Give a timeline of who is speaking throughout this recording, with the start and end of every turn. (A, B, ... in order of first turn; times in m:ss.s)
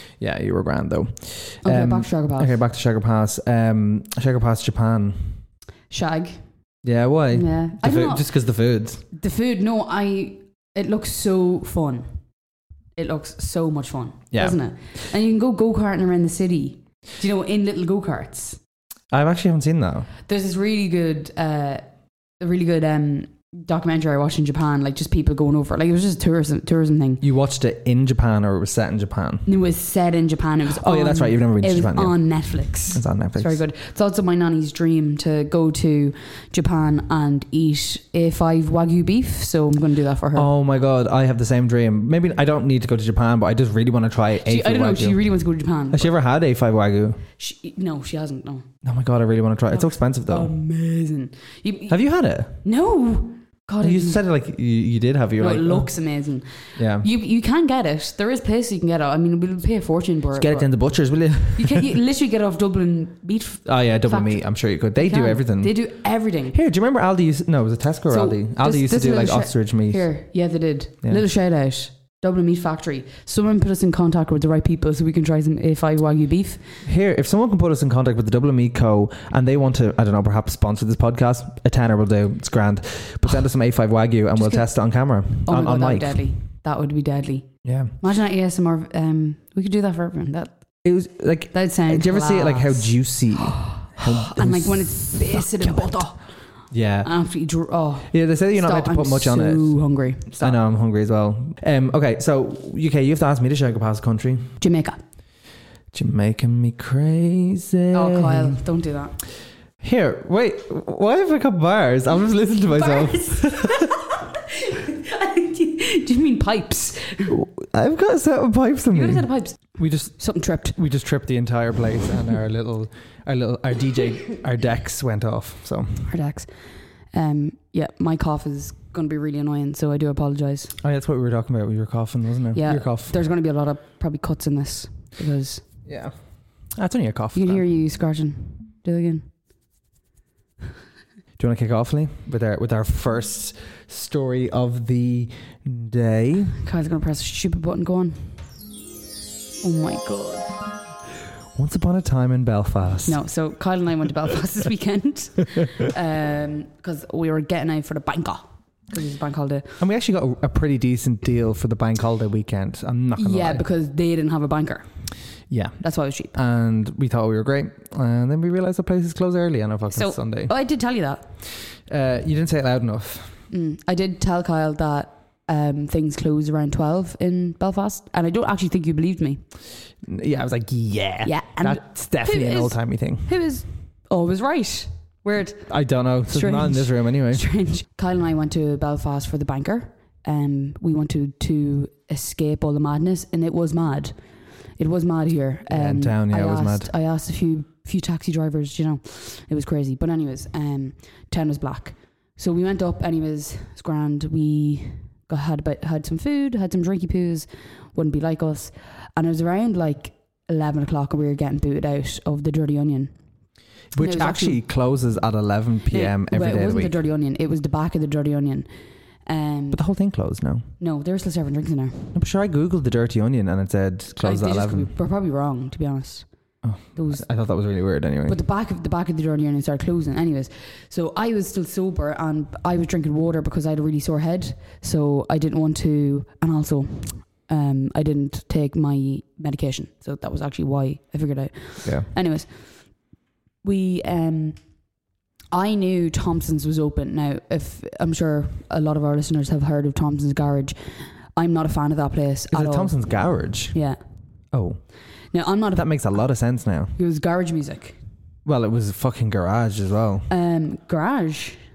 0:00.2-0:05.4 A
0:01.6-0:02.6 B
0:05.9-0:06.4 B
0:06.8-0:09.0 A
0:07.3-0:08.3 B
0:09.1-0:12.1 B
0:13.0-0:18.6 B
0:14.3-0:14.6 A
0:19.1-0:20.1 A
0:20.3-0:21.8 B
0:22.4-0:27.2 B
0:27.2-0:29.5 A
0:29.4-0:40.5 B
0:30.7-0:32.2 A
0:32.9-0:33.6 A
0:40.3-0:45.2 A
0:44.4-0:46.1 B
0:45.9-0:47.2 A
0:47.4-0:48.6 B
0:48.8-0:50.5 A
0:49.7-0:52.0 B
0:51.9-0:52.6 A
0:52.6-0:54.2 B
0:53.8-0:55.9 A
0:55.4-1:00.7 B
0:56.8-0:57.1 A
1:00.4-1:01.9 A
1:01.5-1:04.4 B
1:03.6-1:05.7 A
1:05.0-1:06.6 B
1:06.5-1:10.0 A
1:08.1-1:16.6 B
1:16.8-1:26.3 A
1:24.4-1:24.6 B
1:25.4-1:27.5 B
1:27.6-1:27.9 A
1:28.0-1:30.6 B
1:30.8-1:35.8 A
1:31.5-1:36.3 B
1:36.7-1:37.1 A
1:37.0-1:40.6 B
1:38.1-1:39.7 A
1:40.4-1:44.5 A
1:44.6-1:45.0 B
1:45.9-1:48.6 A
1:47.9-1:49.2 B
1:49.8-1:53.9 A
1:52.7-1:57.4 B
1:57.3-2:00.2 A
1:58.9-2:00.8 B
2:00.7-2:06.1 A
2:06.1-2:06.5 B
2:07.1-2:10.7 B
2:10.8-2:13.2 A
2:12.5-2:15.6 B
2:15.8-2:16.1 A
2:16.7-2:17.6 A
2:17.3-2:19.3 B
2:21.4-2:26.6 A
2:26.6-2:28.4 B
2:29.6-2:30.5 B
2:31.5-2:33.2 A
2:33.0-2:39.7 B
2:39.8-2:43.6 A
2:43.2-2:44.9 B
2:45.5-2:45.8 A
2:45.8-2:46.3 B
2:46.3-2:50.5 A
2:49.9-2:51.3 B
2:51.7-2:53.4 A
2:53.5-2:59.4 B
3:00.0-3:03.3 A
3:01.2-3:05.7 B
3:05.7-3:07.4 A
3:06.3-3:14.2 B
3:14.8-3:33.1 B
3:15.7-3:16.9 A
3:33.9-3:36.9 A
3:34.0-3:34.6 B
3:35.9-3:38.7 B
3:39.2-3:39.8 B
3:39.7-3:40.6 A
3:40.8-3:42.1 B
3:42.1-3:44.9 A
3:44.2-3:46.2 B
3:46.6-3:48.4 A
3:46.9-3:47.2 B
3:48.3-4:02.5 B
4:03.6-4:04.6 B
4:05.5-4:13.0 B
4:12.5-4:13.8 A
4:13.7-4:14.0 B
4:14.5-4:14.8 A
4:15.3-4:15.9 B
4:15.7-4:16.9 A
4:17.0-4:18.0 B
4:18.4-4:20.3 A
4:20.3-4:21.6 B